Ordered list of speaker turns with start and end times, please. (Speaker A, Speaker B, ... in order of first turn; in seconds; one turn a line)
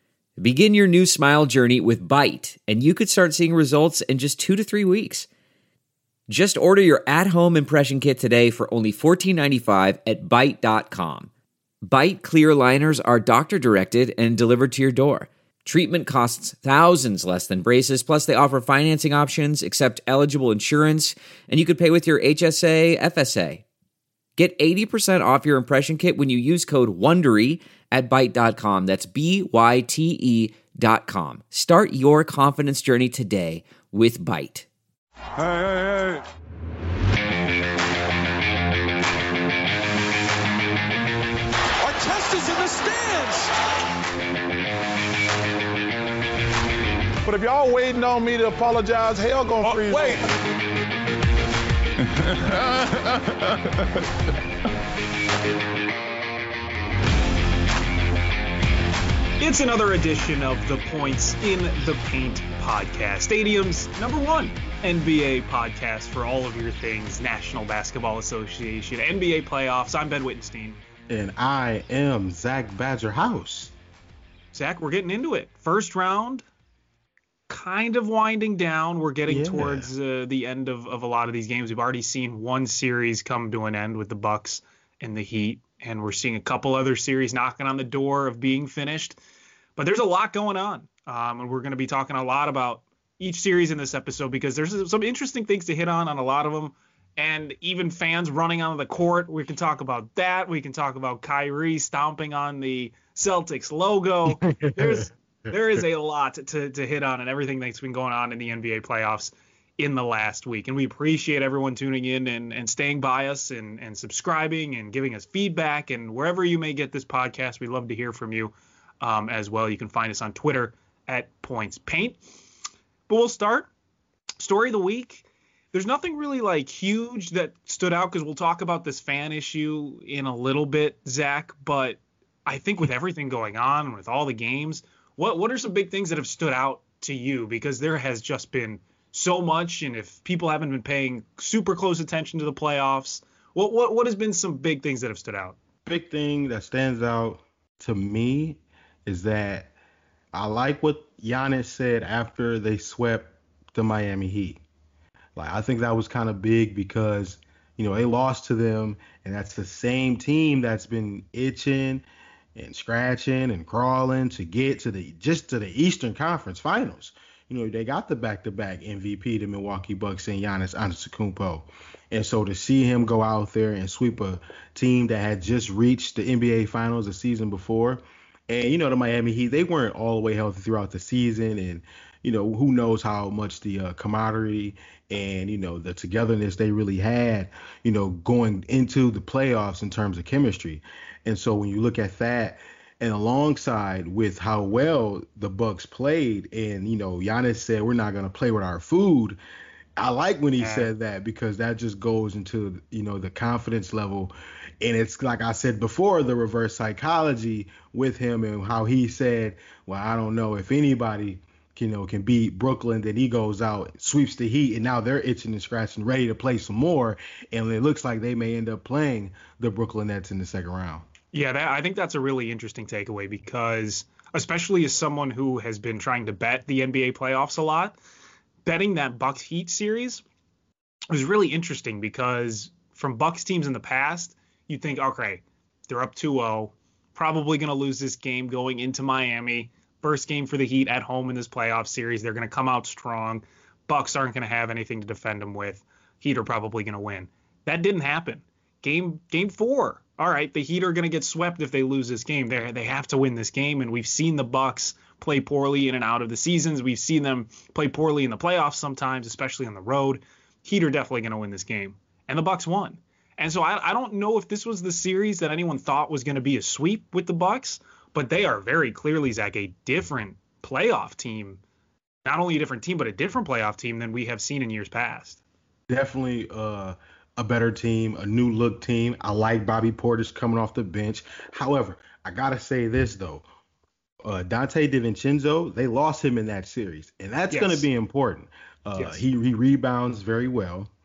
Speaker A: 0.4-5.3
Speaker A: 6.3-11.3
Speaker A: 11.8-23.6
Speaker A: 24.4-34.7
Speaker B: 35.4-36.2
Speaker B: 41.8-43.5
Speaker C: 47.2-50.2
Speaker B: 49.7-50.2
Speaker C: 52.5-52.9
Speaker D: 59.4-70.8
Speaker E: 71.1-73.7
Speaker D: 74.5-76.5
Speaker D: 77.5-89.2
Speaker E: 79.3-79.9
Speaker D: 89.8-122.2
Speaker E: 104.3-105.8
Speaker D: 123.1-123.7
Speaker D: 124.4-145.6
Speaker E: 145.9-149.7
Speaker E: 150.3-154.6
Speaker E: 155.4-199.4
Speaker E: 200.0-221.1
Speaker D: 200.6-200.9
Speaker D: 221.3-228.0
Speaker D: 228.7-230.2
Speaker D: 231.1-271.6
Speaker D: 272.2-275.4
Speaker E: 275.9-283.4
Speaker E: 284.2-290.9
Speaker D: 287.5-287.9
Speaker D: 289.0-289.2